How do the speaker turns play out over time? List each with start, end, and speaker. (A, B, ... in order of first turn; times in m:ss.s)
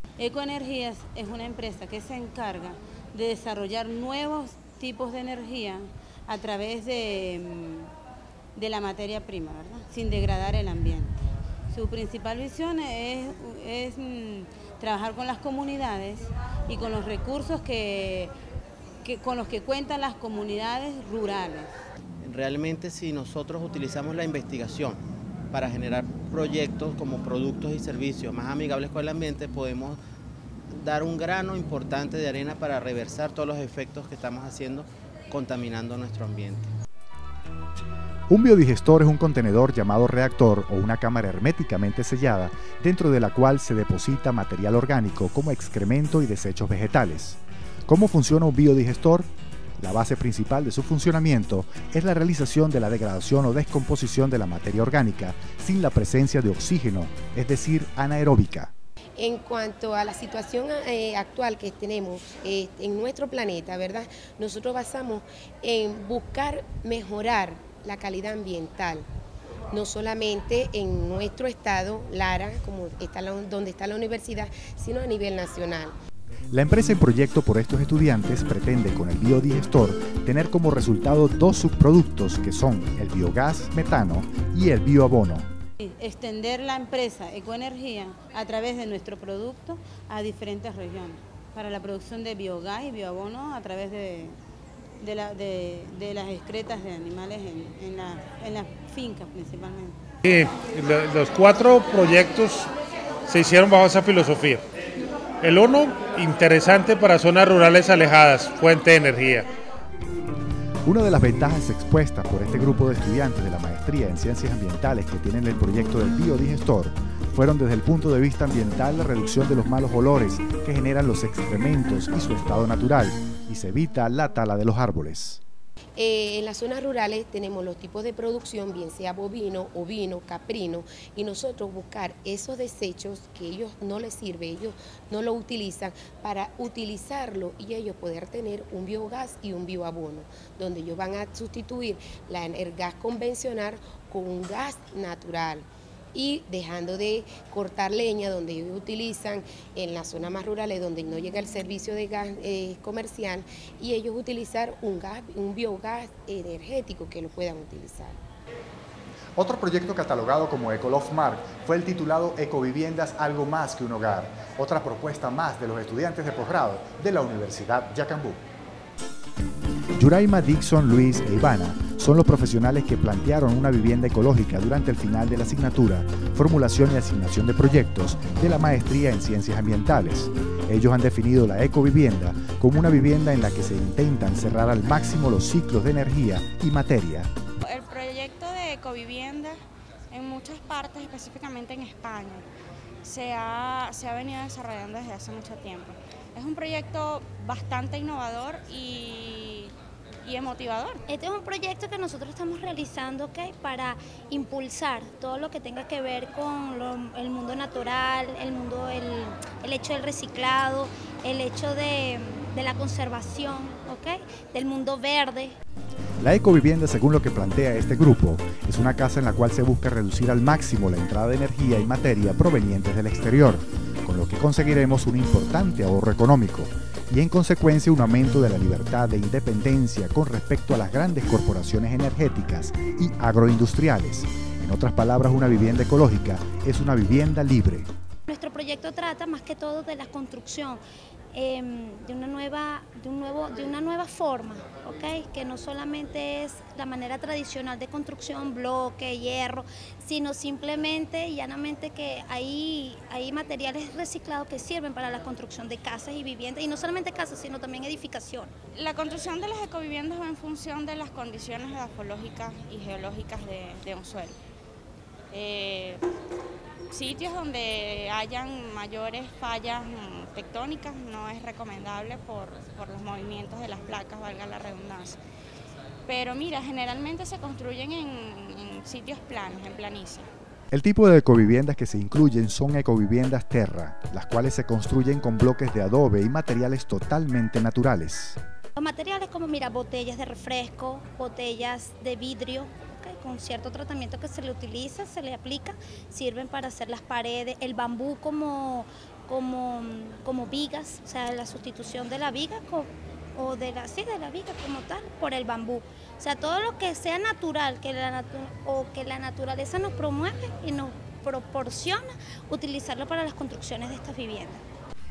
0:00.2-0:07.9 A
0:08.6-0:11.2 A
0:11.7-0:18.3 A
0:19.0-0:21.7 A
0:22.2-0:25.0 B
0:25.5-0:30.0 B
0:30.7-0:36.7 B
0:38.3-0:58.7 C
0:59.2-1:09.1 D
1:09.7-1:16.0 D
1:16.5-1:25.5 C
1:25.8-1:34.4 A
1:35.0-1:40.0 A
1:40.2-1:42.7 E
1:43.3-1:44.6 E
1:45.4-1:49.5 E
1:50.8-2:05.4 C
2:06.0-2:38.2 D
2:39.4-2:48.4 C
2:50.0-3:07.3 C
3:07.6-3:09.6 F
3:10.1-3:12.5 F
3:13.0-3:21.0 F
3:21.1-3:35.6 G
3:36.2-3:57.9 C
3:58.3-4:00.8 G
4:01.3-4:18.5 G
4:18.7-4:24.4 F
4:25.3-4:26.0 F
4:26.9-4:35.2 F
4:36.1-4:40.3 F
4:40.7-4:48.4 C
4:48.8-5:14.6 G